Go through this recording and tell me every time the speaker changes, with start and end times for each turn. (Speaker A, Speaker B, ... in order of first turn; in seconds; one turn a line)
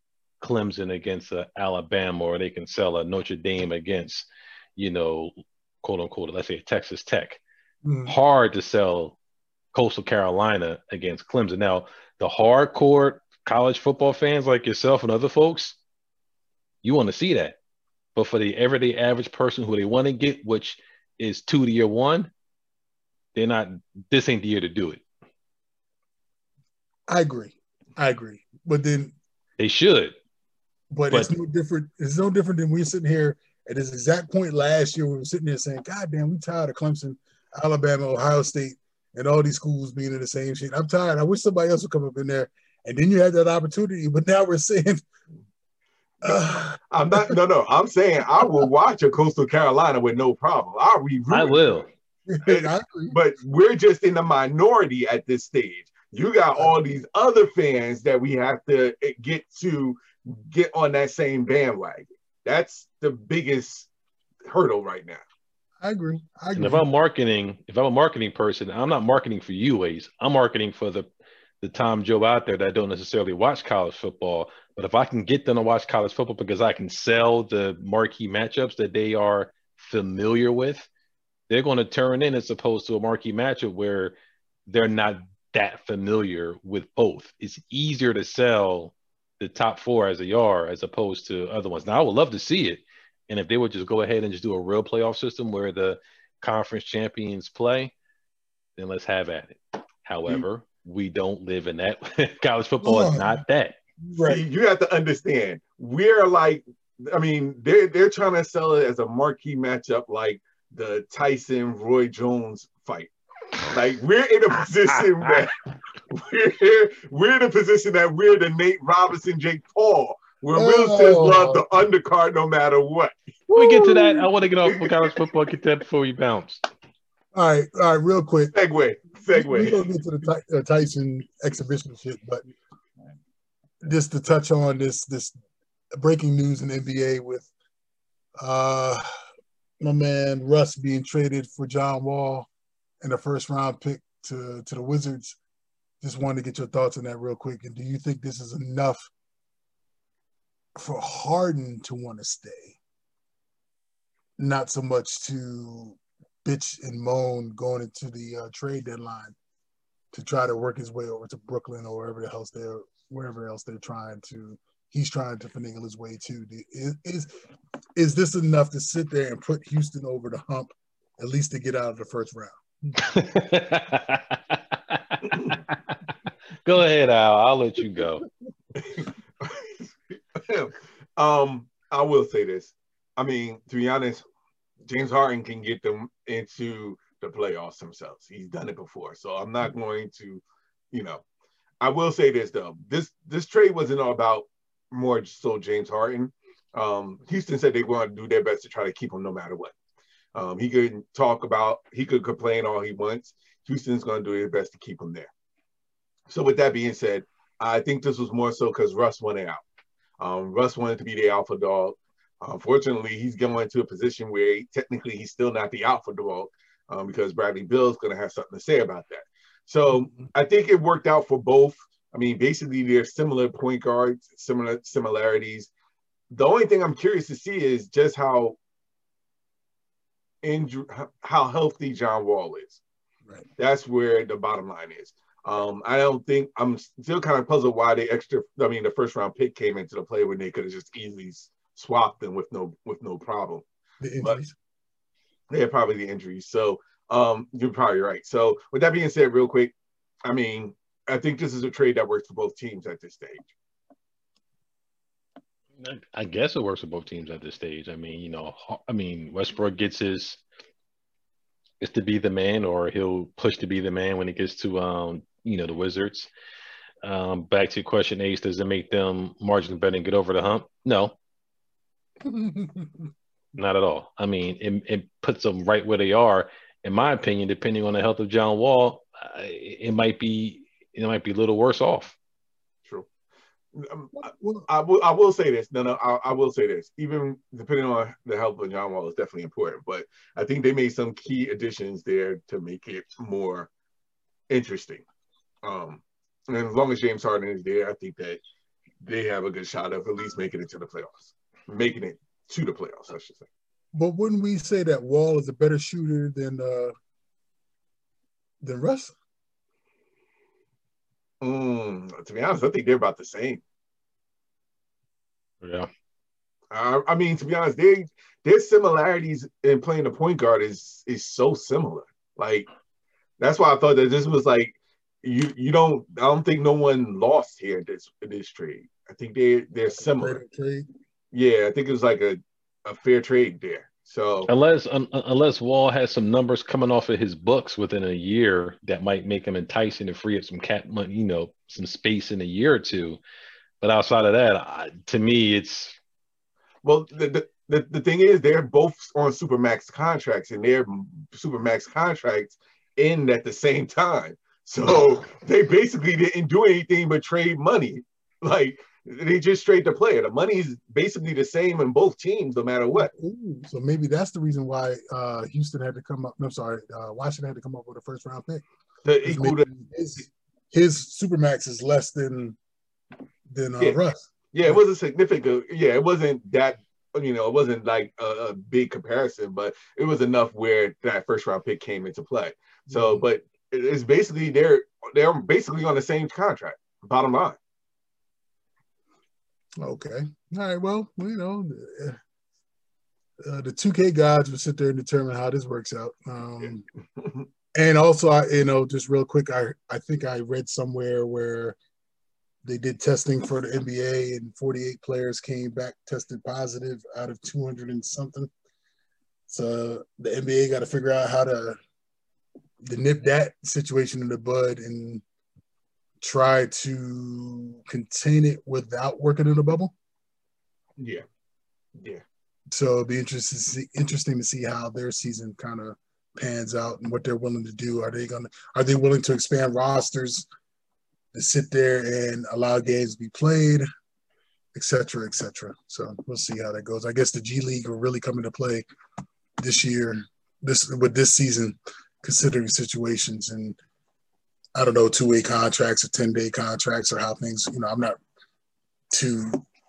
Speaker A: 0.4-7.4
Speaker B: 7.8-8.1
Speaker A: 8.1-9.2
Speaker A: 9.7-15.8
Speaker A: 16.8-17.6
Speaker A: 18.1-22.3
Speaker A: 23.3-25.0
Speaker B: 27.1-29.1
Speaker A: 29.6-30.1
Speaker B: 30.9-45.0
Speaker C: 46.2-51.8
Speaker B: 46.2-47.3
Speaker A: 51.3-51.9
Speaker B: 52.3-53.1
Speaker C: 52.4-63.9
Speaker C: 64.5-65.2
Speaker B: 65.8-66.8
Speaker A: 66.5-71.1
Speaker A: 71.6-80.9
Speaker A: 81.5-84.1
Speaker A: 84.7-97.9
Speaker A: 98.8-103.8
Speaker B: 102.8-103.4
Speaker B: 104.0-104.4
Speaker C: 104.2-113.1
Speaker C: 113.6-115.6
Speaker C: 116.1-123.1
Speaker B: 120.5-121.6
Speaker B: 123.5-124.3
Speaker A: 123.5-126.6
Speaker B: 127.3-128.5
Speaker C: 128.5-129.9
Speaker B: 129.3-132.4
Speaker B: 133.8-135.3
Speaker B: 135.9-137.5
Speaker B: 138.4-139.0
Speaker B: 139.8-142.5
Speaker B: 143.0-145.4
Speaker B: 146.0-149.1
Speaker B: 150.8-152.8
Speaker B: 154.4-159.3
Speaker B: 160.1-167.3
Speaker B: 167.9-172.6
Speaker A: 173.0-176.0
Speaker A: 176.6-178.2
Speaker C: 178.8-184.2
Speaker C: 184.9-191.2
Speaker C: 191.8-199.7
Speaker C: 200.3-205.3
Speaker C: 206.3-209.6
Speaker C: 210.2-225.7
Speaker C: 226.3-228.6
Speaker C: 230.4-232.8
Speaker C: 233.6-243.6
Speaker B: 244.0-244.5
Speaker C: 245.5-249.7
Speaker C: 250.2-253.5
Speaker A: 255.8-260.4
Speaker A: 261.8-266.3
Speaker A: 267.0-271.1
Speaker B: 272.2-273.1
Speaker A: 273.6-282.2
Speaker C: 283.7-293.7
Speaker B: 284.1-284.7
Speaker C: 294.5-295.0
Speaker C: 295.6-298.4
Speaker C: 299.0-303.4
Speaker B: 303.9-306.9
Speaker B: 308.6-309.1
Speaker C: 311.4-313.6
Speaker A: 315.6-315.9
Speaker C: 316.7-322.7
Speaker C: 323.4-330.4
Speaker B: 330.0-330.9
Speaker C: 331.3-334.5
Speaker A: 334.5-343.2
Speaker A: 343.8-346.0
Speaker C: 346.8-363.1
Speaker B: 362.9-368.6
Speaker C: 369.0-369.7
Speaker B: 369.2-372.6
Speaker B: 373.5-374.8
Speaker C: 374.5-387.6
Speaker B: 382.9-383.2
Speaker B: 389.8-392.2
Speaker B: 393.4-396.9
Speaker B: 397.7-401.8
Speaker B: 402.6-408.5
Speaker B: 409.5-411.8
Speaker B: 412.8-415.2
Speaker B: 416.2-419.9
Speaker C: 421.0-421.2
Speaker C: 422.0-422.2
Speaker B: 422.7-430.5
Speaker B: 431.3-433.9
Speaker B: 434.7-438.9
Speaker B: 439.6-443.8
Speaker B: 444.7-448.2
Speaker B: 449.1-449.6